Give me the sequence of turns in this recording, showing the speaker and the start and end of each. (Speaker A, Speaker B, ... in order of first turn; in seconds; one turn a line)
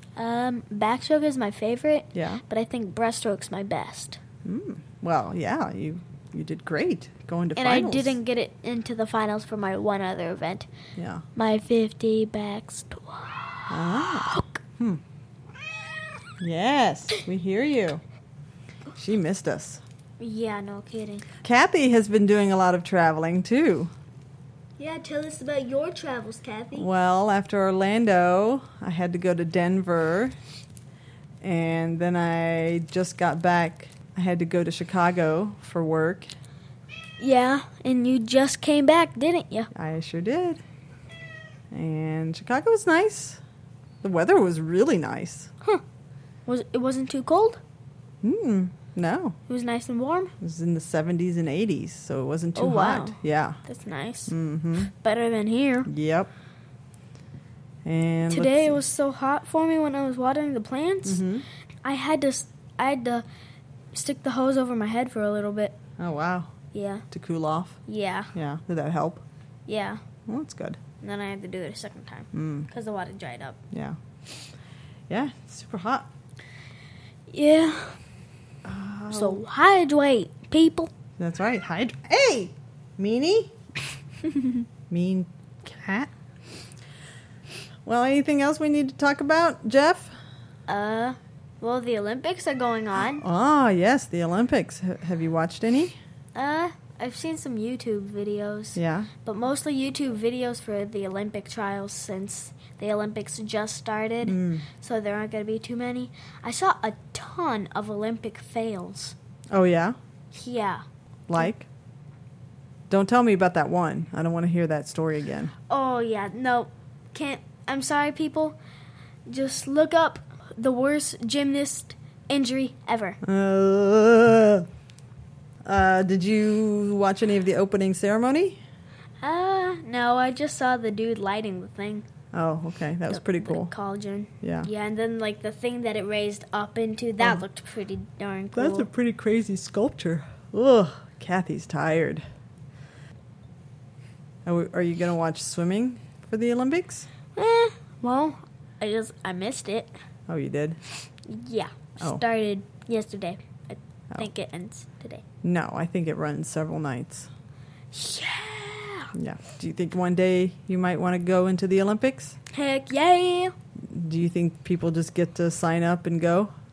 Speaker A: 0.1-4.2
Speaker B: 2.1-2.4
Speaker B: 4.4-8.2
Speaker A: 7.5-10.7
Speaker B: 10.9-11.2
Speaker A: 11.3-14.6
Speaker B: 13.7-15.0
Speaker B: 16.4-18.0
Speaker B: 18.9-19.8
Speaker A: 20.2-21.2
Speaker B: 21.4-23.9
Speaker A: 24.8-26.9
Speaker B: 26.7-30.3
Speaker B: 31.4-36.3
Speaker A: 37.2-39.7
Speaker B: 39.7-40.6
Speaker B: 41.7-43.4
Speaker B: 44.0-45.5
Speaker A: 46.5-47.6
Speaker B: 48.2-49.4
Speaker A: 49.5-50.3
Speaker B: 50.4-53.6
Speaker A: 52.5-54.3
Speaker B: 54.3-54.9
Speaker A: 54.9-55.9
Speaker B: 55.9-56.3
Speaker B: 57.8-58.8
Speaker A: 58.3-61.2
Speaker B: 61.0-61.5
Speaker A: 61.8-63.2
Speaker A: 63.9-65.8
Speaker B: 66.0-66.5
Speaker A: 66.7-67.0
Speaker B: 67.1-67.8
Speaker A: 67.8-68.3
Speaker B: 68.3-69.2
Speaker A: 69.7-70.0
Speaker B: 70.3-70.8
Speaker A: 71.0-73.6
Speaker B: 72.3-72.7
Speaker B: 73.7-74.0
Speaker B: 75.1-76.1
Speaker A: 77.3-78.0
Speaker B: 78.6-79.4
Speaker A: 79.1-80.9
Speaker B: 81.2-83.5
Speaker B: 84.9-86.1
Speaker B: 87.8-90.1
Speaker A: 90.7-93.2
Speaker B: 93.1-96.0
Speaker A: 96.3-109.1
Speaker B: 98.8-99.1
Speaker B: 104.2-104.7
Speaker B: 109.5-110.0
Speaker A: 110.3-110.8
Speaker B: 111.3-111.7
Speaker B: 112.9-115.5
Speaker A: 115.7-118.5
Speaker A: 119.3-123.2
Speaker B: 123.2-124.7
Speaker B: 125.6-128.6
Speaker A: 129.2-132.1
Speaker B: 132.3-133.7
Speaker A: 133.1-138.9
Speaker B: 134.4-134.7
Speaker B: 138.5-142.2
Speaker B: 144.4-147.1
Speaker A: 147.3-149.9
Speaker B: 150.3-150.8
Speaker A: 151.3-155.2
Speaker B: 155.4-157.3
Speaker A: 157.9-159.1
Speaker B: 159.1-162.3
Speaker A: 162.5-163.5
Speaker B: 163.9-166.5